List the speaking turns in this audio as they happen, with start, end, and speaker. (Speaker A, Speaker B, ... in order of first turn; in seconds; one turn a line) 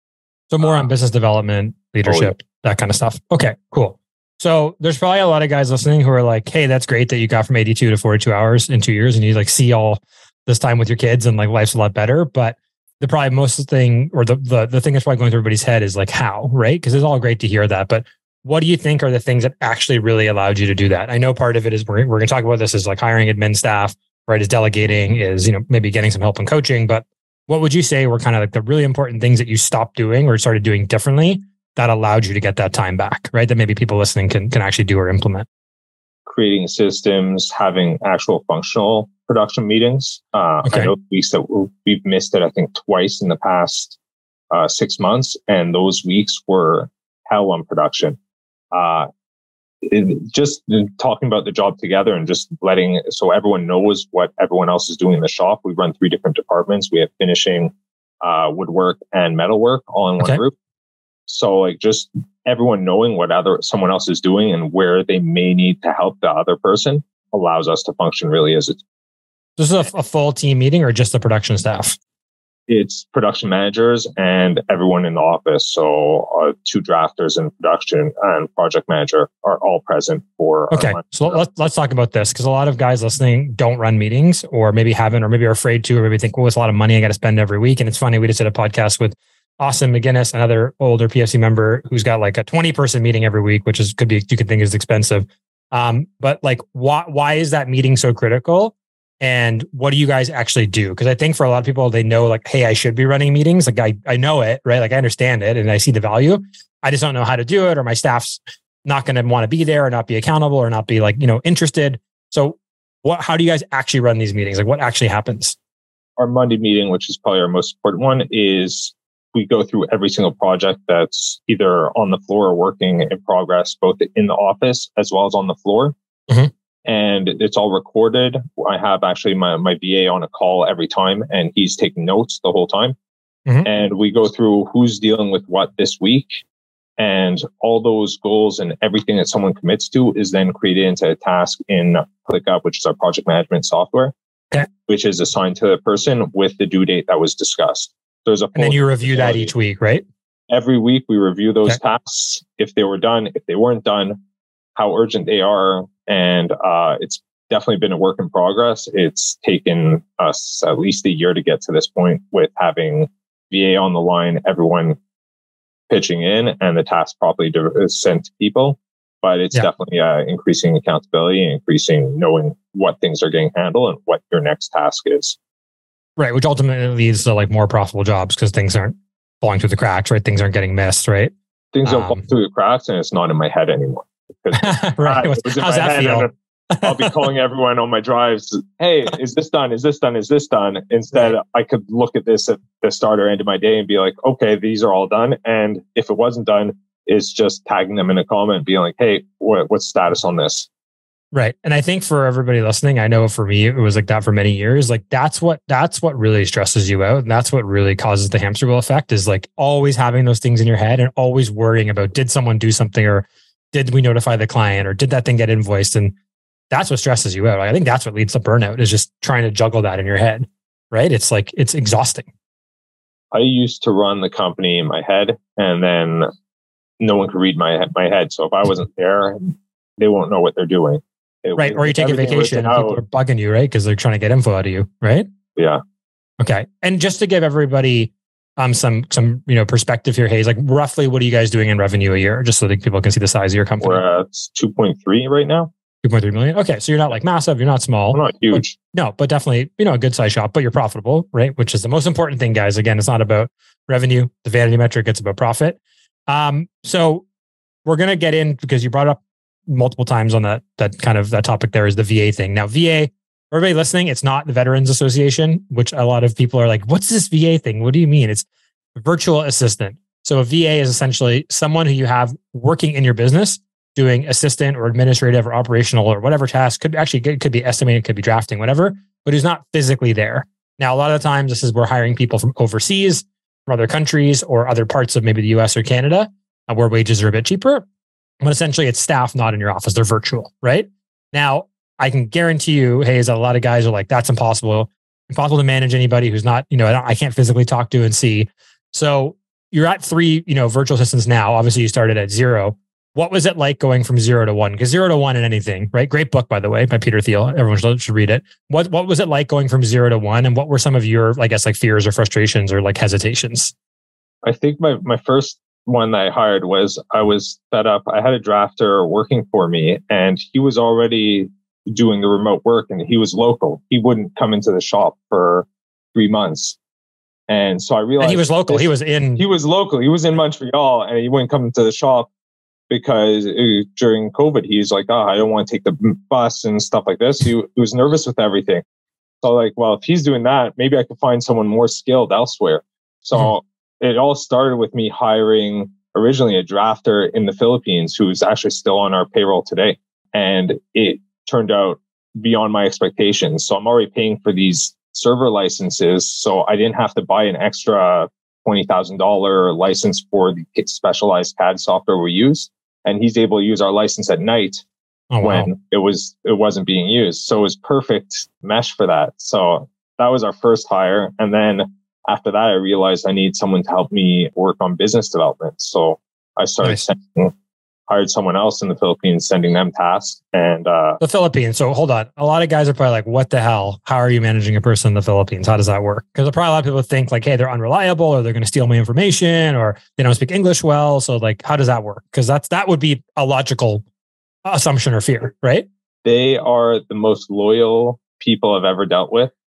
Speaker A: 0.5-35.5
Speaker B: 0.6-0.9
Speaker B: 2.1-2.4
Speaker B: 36.2-44.0
Speaker A: 40.6-40.9
Speaker B: 44.5-48.2
Speaker B: 48.7-49.1
Speaker B: 49.8-60.6
Speaker B: 61.3-68.8
Speaker A: 69.6-72.0
Speaker B: 72.7-81.4
Speaker A: 80.7-115.6
Speaker B: 116.2-125.9
Speaker B: 126.8-132.9
Speaker B: 133.6-136.4
Speaker B: 137.0-144.1
Speaker B: 144.8-149.5
Speaker A: 148.6-150.1
Speaker B: 150.5-154.2
Speaker B: 154.8-165.0
Speaker B: 165.9-175.4
Speaker A: 176.2-181.3
Speaker B: 181.7-186.3
Speaker A: 181.8-182.3
Speaker A: 184.5-187.1
Speaker B: 186.8-200.7
Speaker A: 201.3-216.1
Speaker A: 216.7-222.3
Speaker B: 223.3-226.3
Speaker B: 227.0-233.0
Speaker A: 231.6-235.3
Speaker B: 235.6-235.8
Speaker A: 236.4-244.0
Speaker B: 243.8-245.7
Speaker A: 246.0-257.2
Speaker B: 248.1-248.8
Speaker A: 257.9-268.5
Speaker A: 269.0-287.9
Speaker A: 288.4-313.7
Speaker B: 314.4-326.8
Speaker B: 327.5-332.3
Speaker A: 328.2-329.4
Speaker B: 332.9-338.8
Speaker B: 339.4-364.9
Speaker A: 365.3-365.7
Speaker B: 365.4-377.5
Speaker B: 378.1-381.2
Speaker A: 381.2-394.0
Speaker A: 394.6-395.9
Speaker B: 396.2-399.5